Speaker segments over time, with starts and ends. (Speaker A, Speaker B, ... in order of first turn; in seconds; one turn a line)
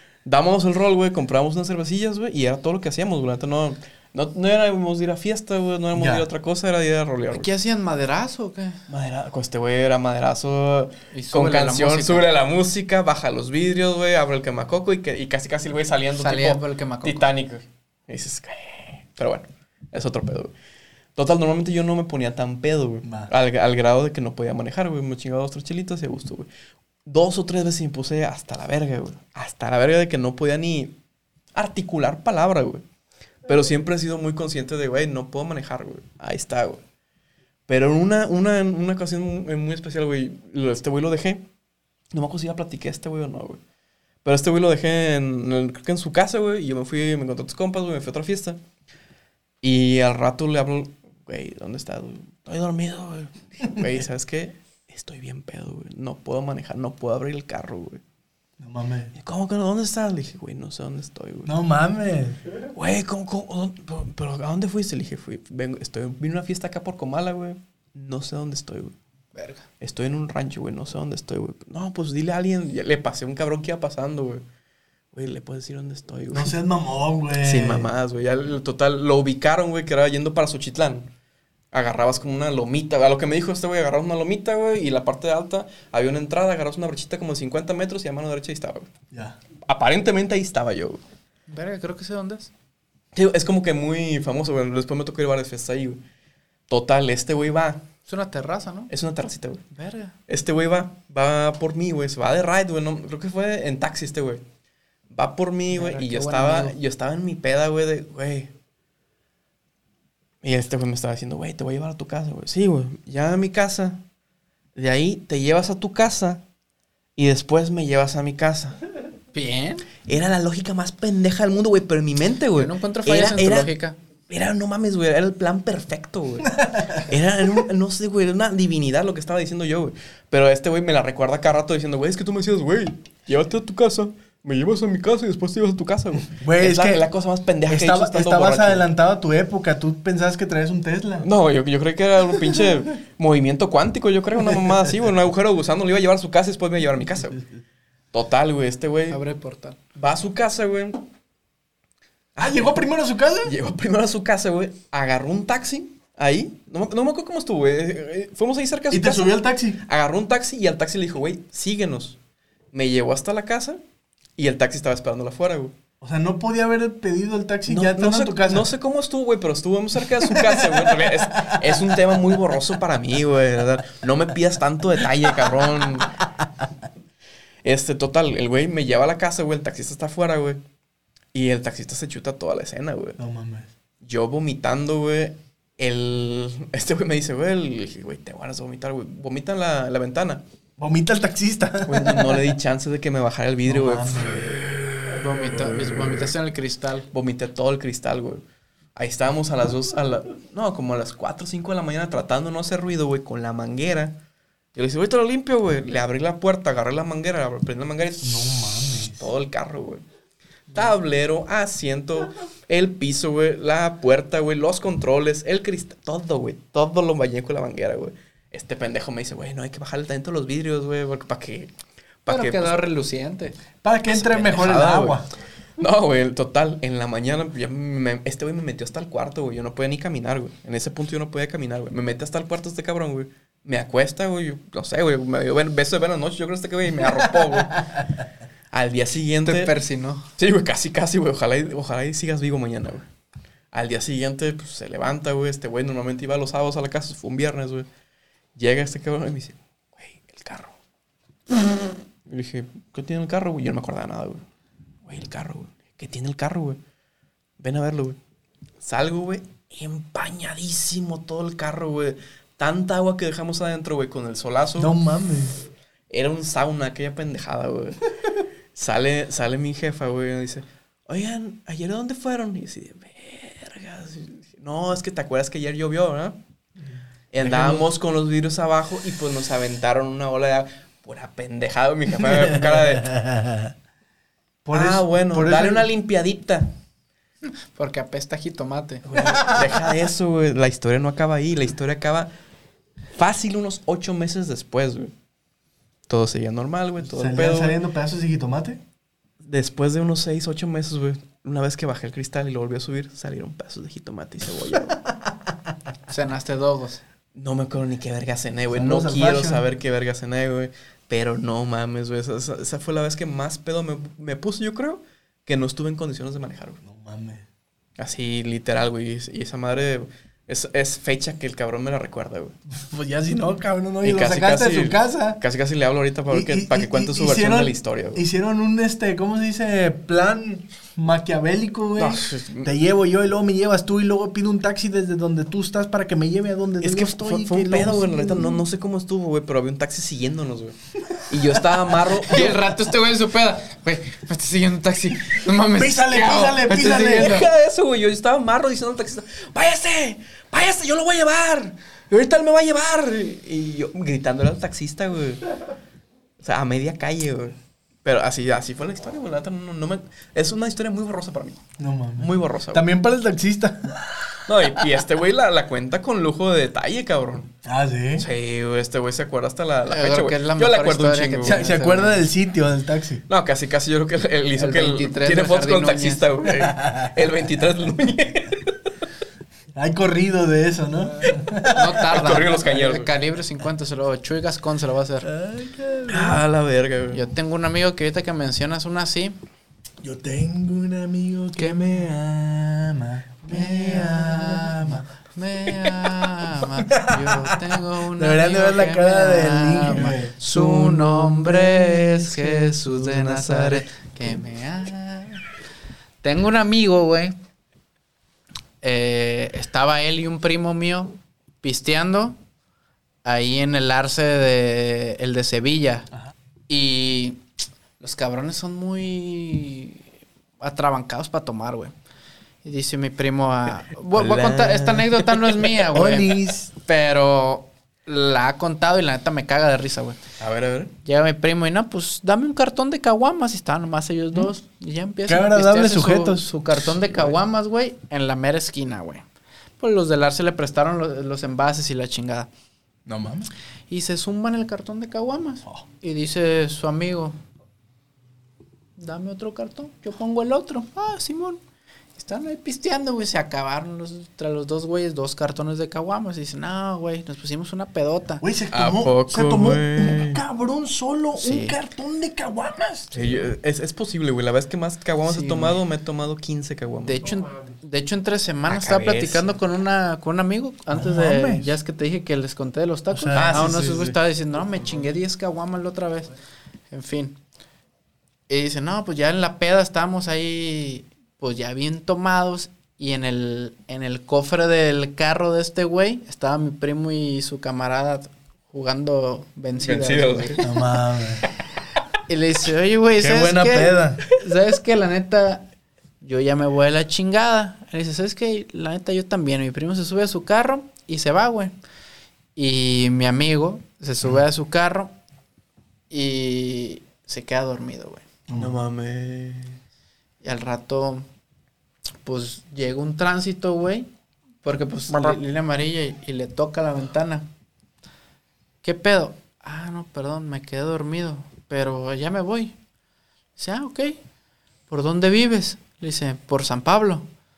Speaker A: 0.2-7.5
Speaker B: 6.0-6.3
Speaker C: 7.3-8.8
Speaker A: 8.9-20.5
Speaker C: 11.1-12.3
Speaker C: 16.2-17.3
Speaker A: 21.2-26.5
Speaker B: 23.1-23.3
Speaker A: 27.1-30.9
Speaker A: 31.6-32.8
Speaker A: 33.5-36.8
Speaker A: 37.7-41.5
Speaker A: 42.1-43.6
Speaker A: 44.2-48.6
Speaker A: 49.6-58.0
Speaker B: 58.6-59.1
Speaker A: 59.2-61.5
Speaker B: 61.5-62.4
Speaker A: 62.7-69.0
Speaker C: 69.3-69.6
Speaker A: 69.8-74.4
Speaker A: 75.1-76.6
Speaker B: 76.3-77.9
Speaker A: 77.4-81.1
Speaker A: 81.7-88.9
Speaker B: 89.1-89.4
Speaker A: 89.7-91.0
Speaker C: 91.5-92.5
Speaker A: 93.1-96.0
Speaker A: 96.7-97.9
Speaker C: 98.1-98.9
Speaker A: 98.9-99.6
Speaker C: 99.7-100.2
Speaker A: 100.3-104.4
Speaker A: 105.1-108.5
Speaker C: 105.7-106.8
Speaker A: 110.4-114.0
Speaker A: 114.8-116.4
Speaker A: 117.2-118.8
Speaker C: 119.3-119.9
Speaker A: 120.1-123.7
Speaker C: 122.5-124.0
Speaker A: 124.3-138.9
Speaker B: 136.3-137.1
Speaker B: 137.7-141.3
Speaker A: 141.2-147.4
Speaker A: 148.1-149.2
Speaker C: 149.1-149.8
Speaker A: 150.0-151.1
Speaker A: 152.4-152.8
Speaker B: 152.4-153.6
Speaker A: 153.4-162.2
Speaker B: 158.9-159.8
Speaker A: 162.7-163.8
Speaker A: 164.4-165.7
Speaker B: 166.0-168.7
Speaker A: 167.7-176.2
Speaker B: 170.2-172.2
Speaker A: 177.6-180.6
Speaker A: 181.3-183.2
Speaker B: 183.2-183.7
Speaker A: 184.0-190.4
Speaker B: 190.8-192.5
Speaker A: 191.8-196.3
Speaker B: 193.7-194.5
Speaker C: 195.1-197.1
Speaker A: 197.1-198.4
Speaker A: 199.0-204.2
Speaker A: 204.8-210.0
Speaker B: 208.2-209.3
Speaker A: 210.7-221.7
Speaker A: 222.2-222.8
Speaker C: 222.3-223.6
Speaker B: 223.8-225.3
Speaker A: 224.1-225.2
Speaker A: 225.8-238.0
Speaker A: 238.7-239.7
Speaker C: 239.4-240.3
Speaker A: 240.4-243.1
Speaker A: 243.7-247.9
Speaker A: 248.6-250.7
Speaker A: 251.5-254.4
Speaker A: 255.1-256.8
Speaker A: 257.6-258.2
Speaker A: 258.8-264.9
Speaker B: 264.8-265.6
Speaker A: 266.1-268.1
Speaker A: 268.8-276.4
Speaker A: 277.3-283.2
Speaker B: 277.4-277.9
Speaker B: 282.2-283.7
Speaker B: 284.6-285.9
Speaker A: 284.7-286.7
Speaker C: 287.8-289.2
Speaker A: 289.1-292.3
Speaker B: 289.1-289.8
Speaker A: 293.2-295.1
Speaker A: 296.1-297.8
Speaker B: 297.0-298.8
Speaker A: 299.4-305.0
Speaker C: 306.1-307.0
Speaker A: 307.4-316.8
Speaker B: 308.7-309.6
Speaker B: 316.8-317.5
Speaker A: 318.0-322.5
Speaker B: 322.7-325.4
Speaker A: 324.0-328.2
Speaker B: 326.3-338.6
Speaker A: 332.0-332.7
Speaker A: 336.8-342.7
Speaker C: 342.2-347.5
Speaker B: 345.7-347.4
Speaker A: 346.7-355.4
Speaker A: 356.4-361.6
Speaker B: 361.8-364.7
Speaker A: 362.2-362.9
Speaker A: 364.5-367.5
Speaker B: 367.6-368.3
Speaker A: 368.2-371.7
Speaker C: 369.9-372.3
Speaker B: 371.4-373.2
Speaker A: 373.3-378.8
Speaker C: 374.6-376.3
Speaker B: 376.5-377.1
Speaker B: 379.8-382.1
Speaker C: 381.6-385.3
Speaker A: 382.1-383.1
Speaker B: 385.2-386.4
Speaker A: 386.1-387.2
Speaker C: 387.1-389.4
Speaker B: 390.0-395.1
Speaker C: 391.6-392.0
Speaker C: 393.5-405.4
Speaker B: 396.9-397.6
Speaker B: 398.1-400.3
Speaker A: 400.5-403.8
Speaker C: 406.2-407.4
Speaker C: 408.8-412.4
Speaker C: 413.2-416.1
Speaker C: 416.7-417.4
Speaker C: 418.0-420.0
Speaker C: 420.6-421.9
Speaker C: 422.6-430.2
Speaker A: 424.1-425.7
Speaker B: 425.9-426.7
Speaker A: 430.4-430.9
Speaker C: 431.0-439.2
Speaker B: 435.3-436.5
Speaker C: 439.8-442.5
Speaker B: 443.1-443.5
Speaker C: 443.9-447.4
Speaker C: 449.0-451.6
Speaker C: 452.2-458.4
Speaker B: 458.4-463.2
Speaker A: 458.7-460.4
Speaker C: 461.4-461.8
Speaker A: 463.1-467.3
Speaker C: 465.3-465.8
Speaker C: 467.1-476.3
Speaker A: 468.7-469.6
Speaker B: 470.9-471.8
Speaker B: 473.1-473.7
Speaker A: 473.3-474.2
Speaker C: 476.9-477.4
Speaker C: 478.5-490.6
Speaker A: 489.8-490.7
Speaker B: 490.6-491.4
Speaker C: 492.3-495.7
Speaker B: 493.2-494.3
Speaker C: 496.2-501.7
Speaker C: 502.6-505.1
Speaker C: 506.1-508.2
Speaker B: 508.5-508.8
Speaker A: 508.6-509.8
Speaker C: 510.4-511.3
Speaker C: 512.2-514.1
Speaker C: 514.6-517.5
Speaker C: 518.8-522.8
Speaker C: 523.6-524.2
Speaker C: 524.9-527.3